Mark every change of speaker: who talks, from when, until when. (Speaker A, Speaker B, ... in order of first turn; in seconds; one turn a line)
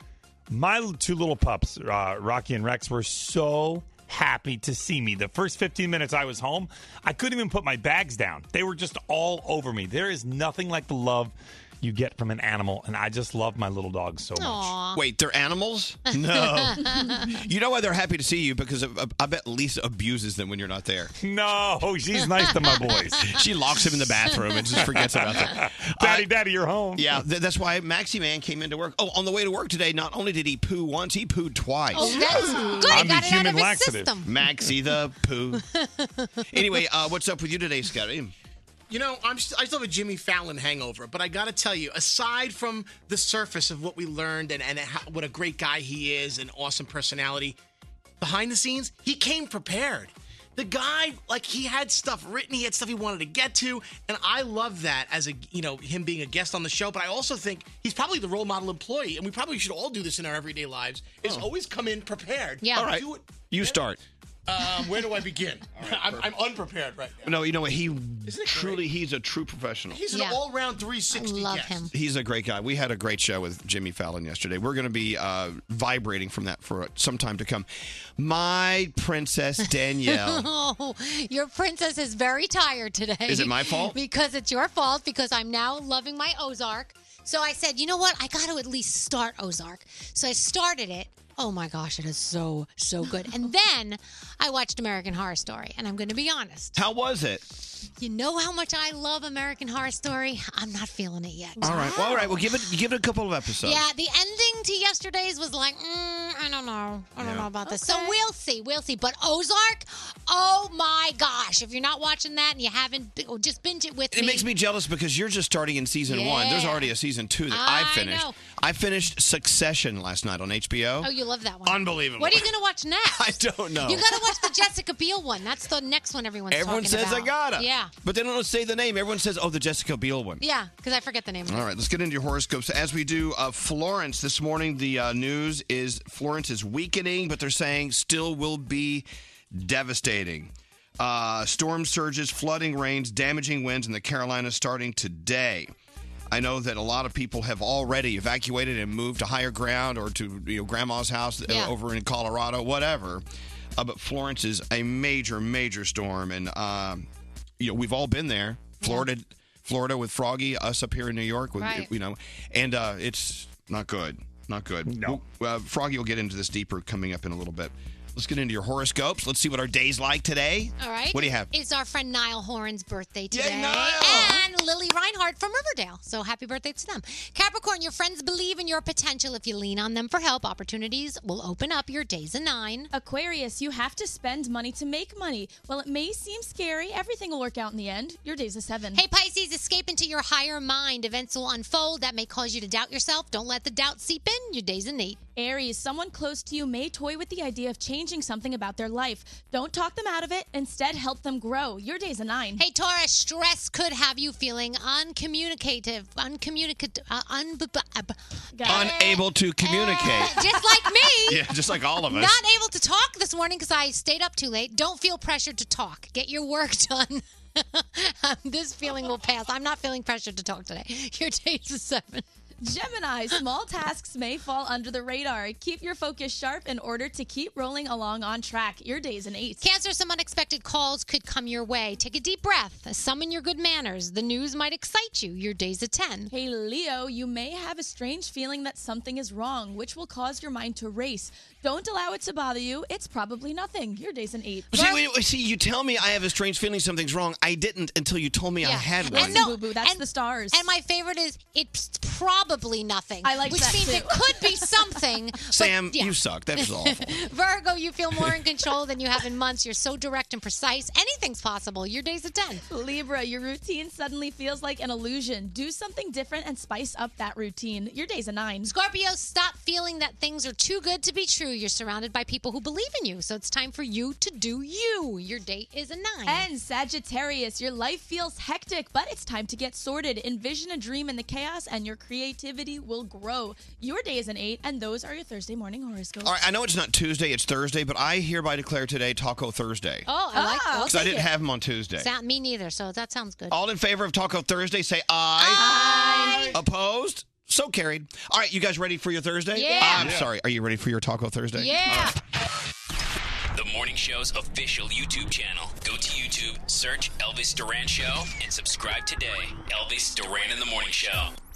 Speaker A: 0.5-14.7
Speaker B: 14.4-15.0
Speaker C: 14.9-21.1
Speaker B: 16.4-17.3
Speaker A: 21.2-23.3
Speaker C: 23.2-26.3
Speaker A: 25.0-27.2
Speaker C: 27.0-32.6
Speaker B: 31.9-34.3
Speaker A: 32.8-34.1
Speaker C: 34.2-35.6
Speaker B: 35.7-36.4
Speaker C: 36.5-38.3
Speaker D: 38.9-47.6
Speaker D: 48.2-63.7
Speaker B: 62.6-62.9
Speaker C: 62.7-64.0
Speaker D: 64.5-67.3
Speaker C: 65.8-66.3
Speaker C: 67.2-70.1
Speaker D: 68.3-68.8
Speaker D: 69.9-71.9
Speaker B: 70.1-70.4
Speaker B: 71.1-71.9
Speaker C: 71.9-80.5
Speaker B: 80.1-96.8
Speaker C: 83.3-84.0
Speaker C: 96.8-97.4
Speaker B: 98.0-102.4
Speaker C: 101.6-103.8
Speaker E: 101.6-102.2
Speaker B: 103.6-114.5
Speaker C: 107.2-107.5
Speaker E: 107.6-108.2
Speaker C: 114.1-121.1
Speaker B: 116.1-116.9
Speaker B: 117.5-118.4
Speaker B: 121.0-127.9
Speaker C: 121.6-122.5
Speaker C: 123.1-124.2
Speaker C: 126.5-130.4
Speaker B: 130.4-131.7
Speaker C: 131.5-145.7
Speaker C: 146.3-153.2
Speaker B: 151.5-151.7
Speaker C: 153.8-157.1
Speaker C: 157.6-171.5
Speaker B: 158.8-159.1
Speaker B: 161.6-161.9
Speaker A: 164.9-165.2
Speaker B: 170.8-182.9
Speaker C: 173.3-174.4
Speaker E: 182.9-189.0
Speaker B: 188.9-195.2
Speaker E: 195.4-202.6
Speaker B: 202.6-211.5
Speaker E: 208.6-209.1
Speaker C: 208.7-210.4
Speaker C: 211.2-212.4
Speaker B: 212.1-222.2
Speaker E: 222.6-229.6
Speaker B: 229.6-236.3
Speaker E: 236.3-245.0
Speaker C: 244.7-249.4
Speaker B: 248.6-262.6
Speaker E: 249.1-250.7
Speaker E: 253.2-254.7
Speaker C: 255.5-257.2
Speaker E: 262.7-268.7
Speaker B: 268.7-276.5
Speaker E: 276.3-286.4
Speaker C: 286.2-290.1
Speaker B: 290.1-291.1
Speaker E: 290.3-291.3
Speaker C: 290.9-292.1
Speaker B: 292.0-293.6
Speaker C: 293.5-295.7
Speaker E: 295.4-296.6
Speaker B: 295.4-296.6
Speaker C: 296.5-302.1
Speaker B: 299.5-300.2
Speaker B: 301.6-302.1
Speaker F: 303.5-311.3